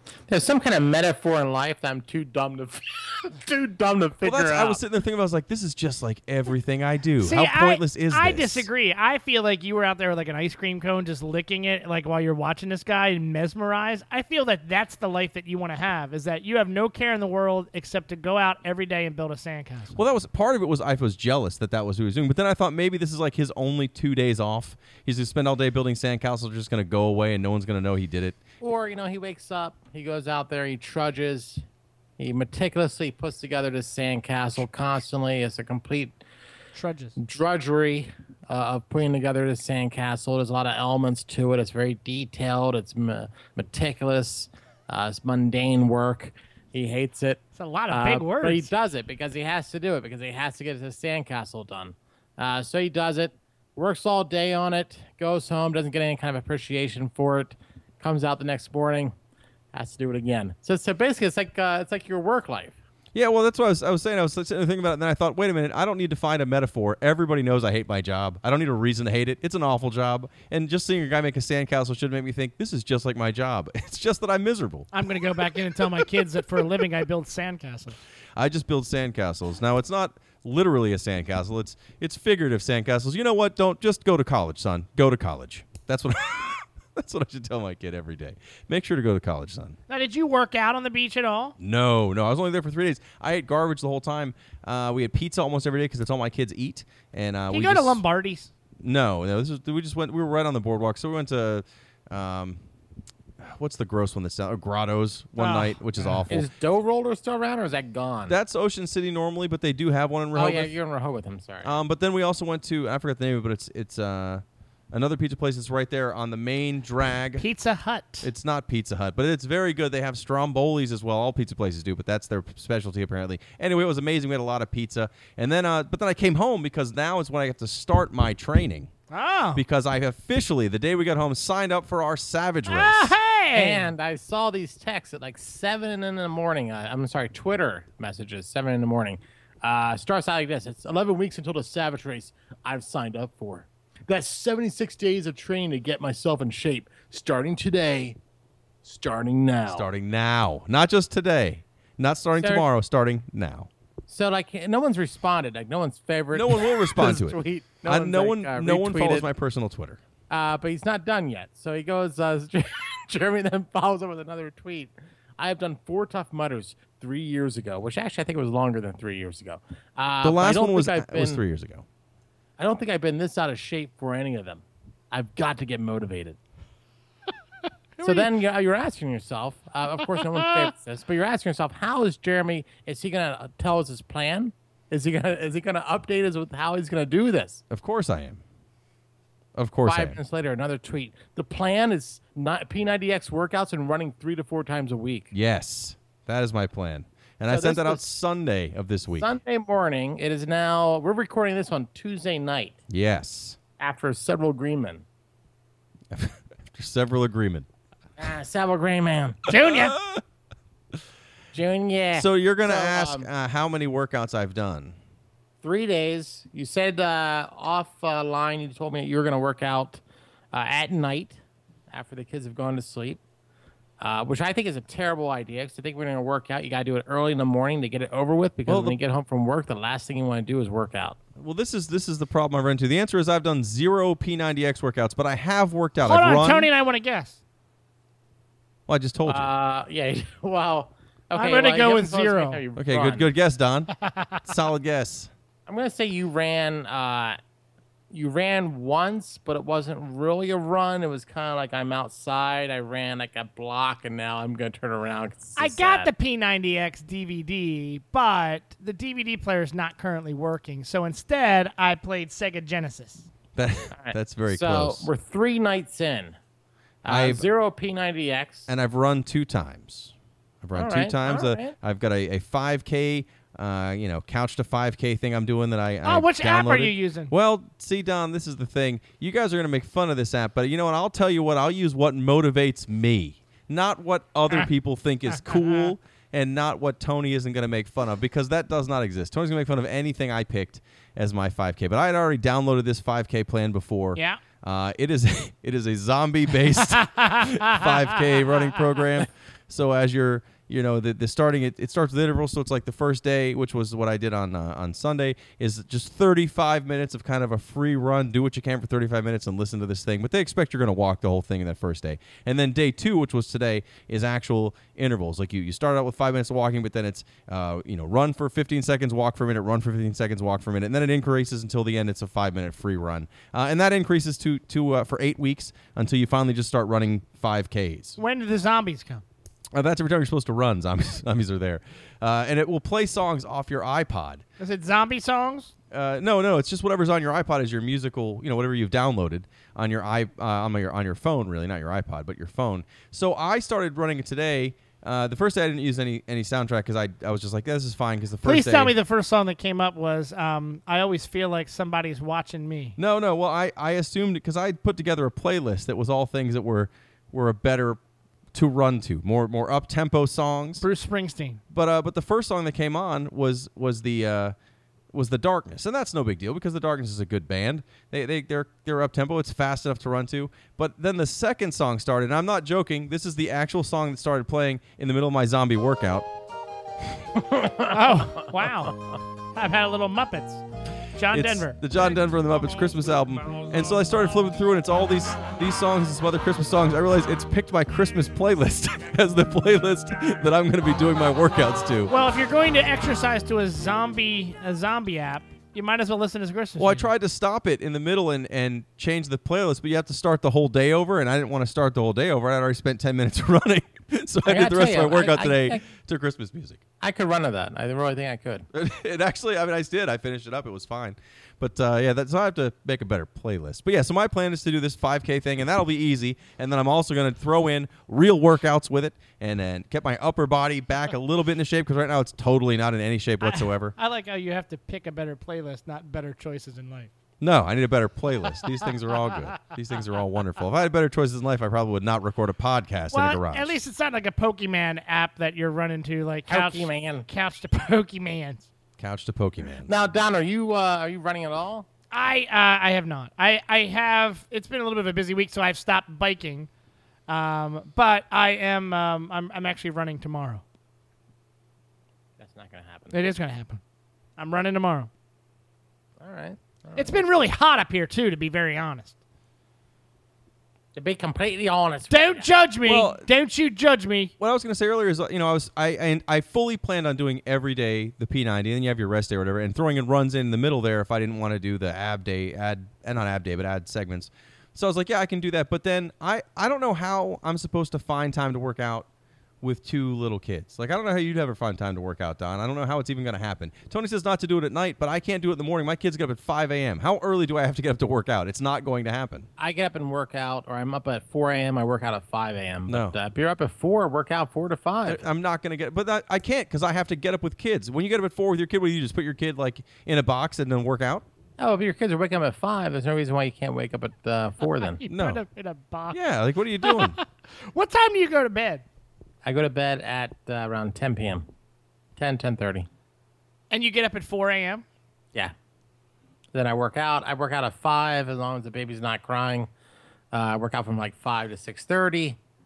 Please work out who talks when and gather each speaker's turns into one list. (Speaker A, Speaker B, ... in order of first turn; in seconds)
Speaker A: 0.3-4.8, 28.6-31.6, 32.2-36.2, 37.2-59.1, 59.7-62.8, 106.3-108.4, 110.3-111.8, 133.5-148.2, 148.8-149.9, 152.4-152.7, 154.1-159.3, 160.3-171.4, 172.6-176.4, 178.0-187.6, 189.8-195.3, 197.5-198.1, 199.2-202.8, 203.8-205.1, 208.2-209.4, 211.5-213.3, 215.6-220.0, 220.5-221.4, 221.9-223.2, 224.0-231.2, 239.2-243.3, 245.7-247.4, 248.1-256.1, 263.9-266.4, 267.1-268.7, 270.8-271.8, 377.4-378.5, 404.5-405.8, 407.0-408.7, 436.5-437.3, 439.9-441.9, 452.4-453.2, 456.2-457.3, 460.9-462.5, 489.6-495.2, 501.6-505.0, 509.4-511.5, 512.2-512.9, 516.5-519.7, 520.3-522.4
Speaker B: 4.2-8.7, 19.9-28.4, 63.1-76.0, 78.4-89.8, 91.6-98.0, 98.8-102.6, 103.4-106.5, 108.3-110.7, 111.6-117.5, 118.2-128.9, 129.6-133.2, 149.7-153.7, 156.3-160.0, 170.2-171.8, 187.7-188.4, 189.6-190.2, 195.3-199.3, 202.9-203.6, 206.1-207.7, 209.5-210.2, 212.1-215.0, 228.7-229.0, 231.4-236.7, 238.9-239.5, 242.8-245.3, 263.6-265.1, 267.1-267.5, 268.7-328.2, 329.7-334.4, 335.9-348.9, 353.0-358.0, 358.5-360.9, 361.7-364.6, 365.1-376.3, 381.3-392.1, 396.8-406.8, 408.7-423.9, 427.4-433.8, 439.0-439.9, 462.9-463.3, 464.4-479.1, 479.6-489.5, 492.9-493.1, 495.1-501.2, 505.1-505.4, 506.1-507.2
Speaker C: 7.2-20.0, 36.8-37.2, 47.6-48.7, 74.9-78.0, 89.9-91.6, 97.5-98.5, 105.4-106.3, 117.4-118.3, 129.1-129.6, 132.7-133.9, 178.0-178.3, 209.5-210.0, 236.1-237.4, 241.3-242.6, 244.1-244.4, 255.6-263.3, 276.0-277.3, 294.2-294.4, 296.8-298.6, 328.2-329.2, 334.6-335.7, 348.4-353.0, 360.8-361.6, 377.9-379.0, 379.6-380.6, 381.1-381.8, 392.1-397.1, 423.4-427.1, 433.1-438.7, 442.1-446.7, 447.3-450.6, 453.1-453.8, 454.4-455.1, 457.0-459.2, 462.1-464.3, 504.8-506.2, 506.8-508.8, 513.7-514.9